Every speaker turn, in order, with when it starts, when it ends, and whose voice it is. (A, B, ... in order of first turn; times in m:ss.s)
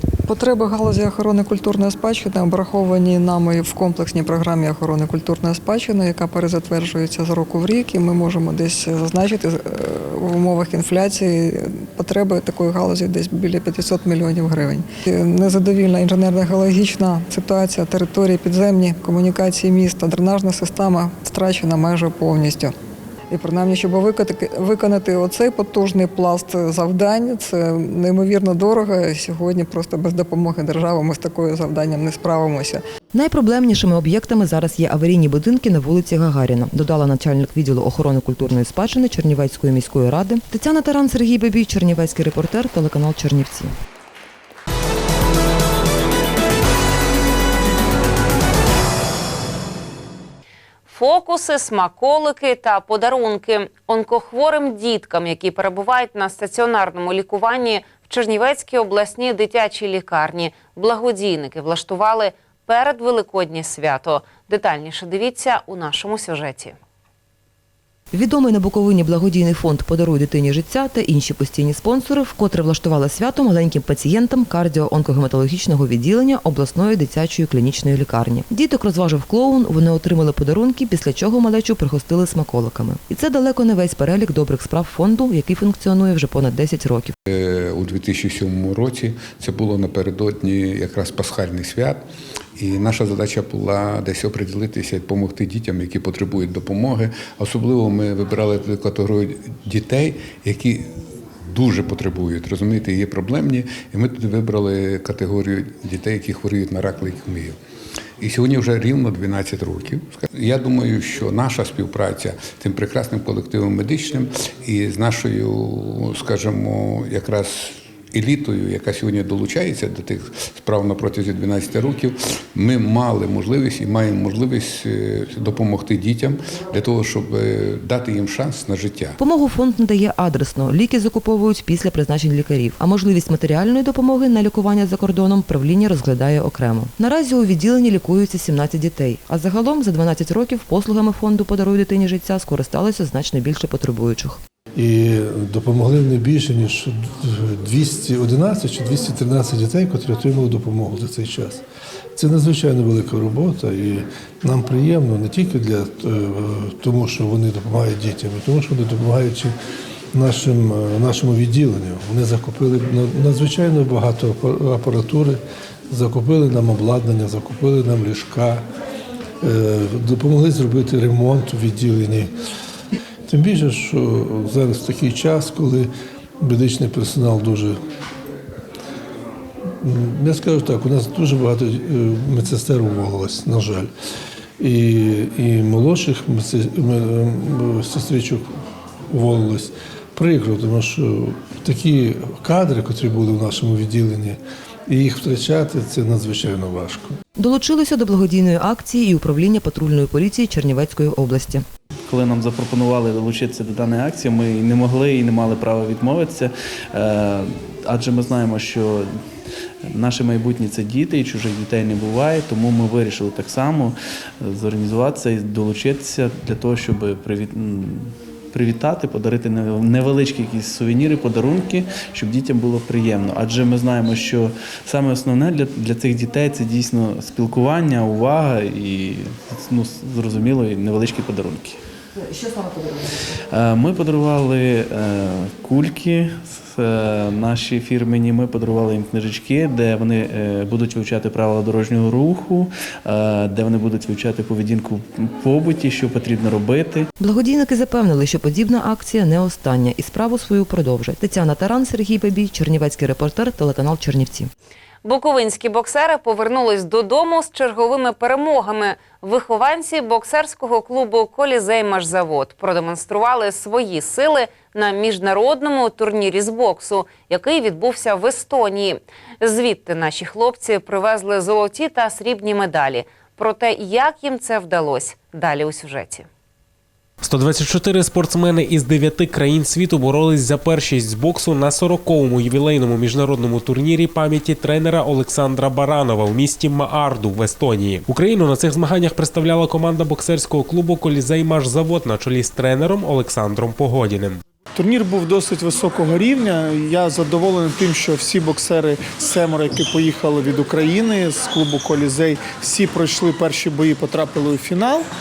0:00.3-0:22.7 A
0:23.3-0:32.8 A
0:33.1-0:43.7 B
0:50.9-1:06.8 C
1:08.1-1:27.1 B
1:27.3-1:32.0 D
1:32.6-1:47.6 D
1:48.2-2:09.2 D
2:09.2-2:24.4 B
2:24.8-2:31.6 E
2:32.2-2:39.6 E
2:40.1-2:48.6 E
2:49.4-2:52.3 E
2:53.3-2:57.8 E
2:59.8-3:03.9 E
3:04.6-3:08.5 E
3:09.1-3:17.2 E
3:17.4-3:21.7 B
3:22.1-3:29.3 F
3:29.9-3:51.8 F
3:52.2-3:53.2 B
3:53.5-4:07.1 F
4:07.2-4:14.5 B
4:15.0-4:36.3 C
4:37.2-4:54.4 G
4:54.8-5:05.1 H